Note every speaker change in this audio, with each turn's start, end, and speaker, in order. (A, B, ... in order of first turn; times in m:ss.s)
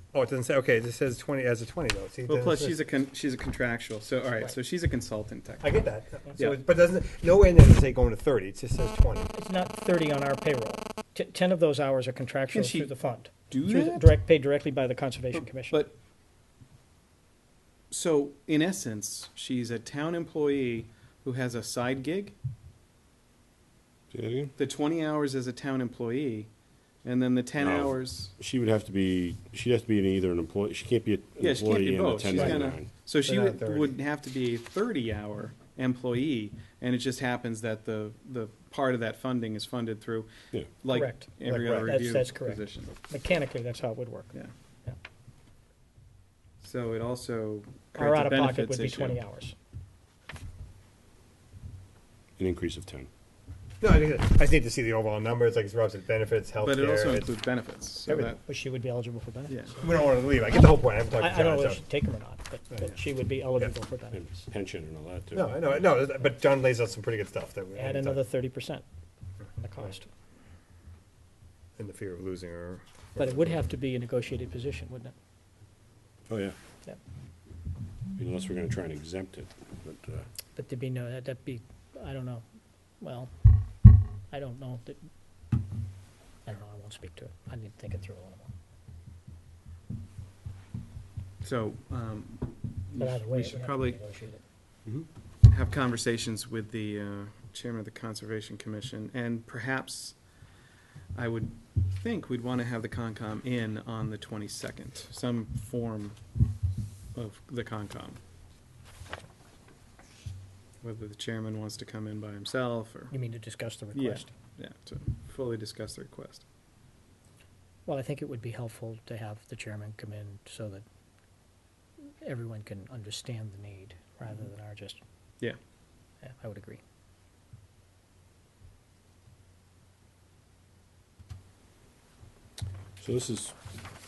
0:00.1-0:02.7 A
0:02.3-0:05.8 B
0:05.6-0:09.3 A
0:09.3-0:15.8 C
0:12.5-0:12.9 B
0:13.5-0:14.1 B
0:15.3-0:15.9 B
0:17.9-0:22.3 B
0:24.1-0:24.5 D
0:24.6-0:26.5 B
0:27.0-0:28.3 B
0:27.6-0:32.9 D
0:31.4-0:42.9 B
0:32.3-0:32.6 A
0:33.2-0:33.9 A
0:40.9-0:44.3 C
0:41.4-0:41.9 A
0:46.6-0:49.2 B
0:47.9-0:49.5 C
0:52.4-0:53.1 D
0:53.8-0:57.3 A
0:56.6-0:58.4 B
0:58.0-0:58.3 A
0:58.4-0:59.6 C
0:59.5-0:59.7 B
0:59.8-1:01.8 A
1:01.1-1:04.4 C
1:04.1-1:05.6 D
1:05.3-1:08.2 A
1:07.8-1:08.8 C
1:09.6-1:10.1 C
1:11.8-1:13.5 A
1:13.2-1:15.1 C
1:16.3-1:16.5 D
1:18.2-1:20.3 D
1:20.6-1:22.4 C
1:23.0-1:23.3 C
1:24.3-1:25.0 C
1:26.4-1:28.5 C
1:31.4-1:34.0 B
1:32.9-1:34.4 C
1:35.5-1:40.2 B
1:41.1-1:46.2 B
1:47.1-1:48.2 B
1:50.8-1:53.1 B
1:53.1-1:54.3 C
1:53.9-1:56.4 B
1:57.8-2:00.8 C
2:02.2-2:05.0 C
2:06.2-2:06.8 C
2:13.0-2:13.6 D